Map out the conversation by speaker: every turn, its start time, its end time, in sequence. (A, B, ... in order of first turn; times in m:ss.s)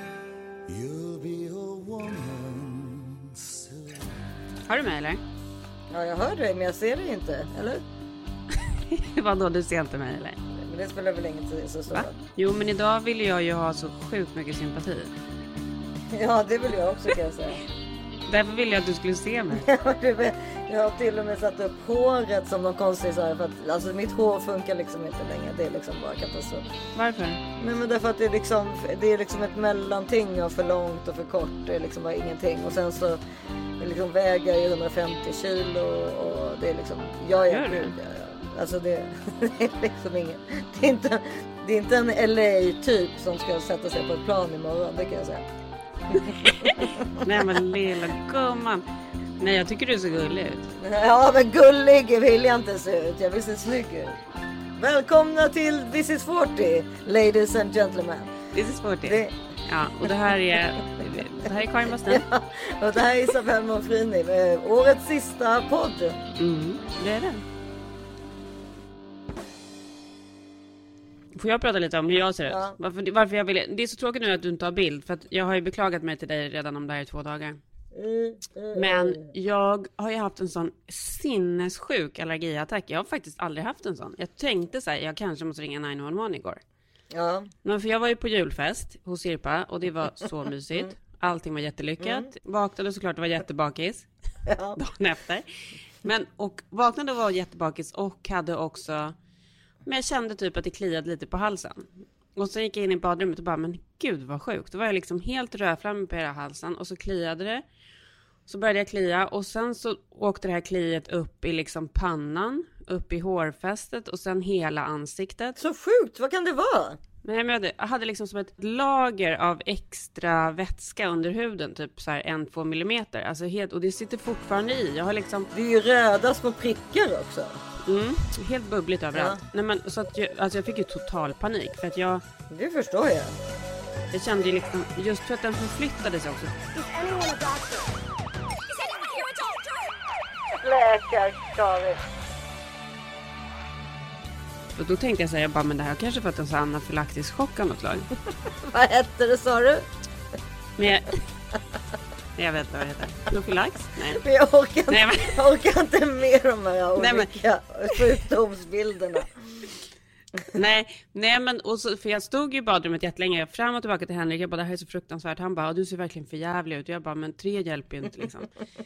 0:00.7-0:03.9 A
0:04.6-0:05.2 B
0:05.9-0:07.8 C
0:08.7-0:10.4 B
0:10.6-0:12.2 C
0:11.9-0:15.1 B
0:16.1-0:17.6 C
0:18.3-0:19.7 B
0:19.5-0:26.6 C
0:26.9-0:27.4 B
0:27.6-0:33.2 C
0:33.8-0:45.4 C
0:37.5-0:37.9 B
0:46.1-0:47.2 C
0:46.4-0:48.8 B
0:49.4-0:50.7 B
0:50.8-0:54.2 C
0:54.8-0:58.4 C
0:58.5-1:02.2 B
0:59.0-0:59.3 C
1:02.1-1:06.2 C
1:06.4-1:07.4 B
1:11.3-1:17.6 B
1:12.5-1:12.8 C
1:17.9-1:19.3 C
1:18.7-1:26.6 B
1:27.1-1:27.5 C
1:27.6-1:34.1 B
1:32.0-1:32.3 C
1:34.4-1:34.8 C
1:34.8-1:35.4 B
1:36.0-1:39.1 B
1:39.8-1:47.6 B
1:48.5-1:55.6 B
1:55.6-1:57.0 C
1:57.2-2:05.5 B
2:05.5-2:07.5 C
2:07.8-2:12.2 B
2:09.1-2:09.4 C
2:12.5-2:13.4 C
2:14.1-2:16.6 B
2:16.9-2:17.8 C
2:20.5-2:22.0 C
2:24.7-2:28.1 B
2:28.5-2:29.8 C
2:30.8-2:31.1 B
2:32.4-2:34.2 B
2:34.0-2:39.3 C
2:34.9-2:35.4 B
2:37.0-2:37.4 B
2:40.5-2:48.5 B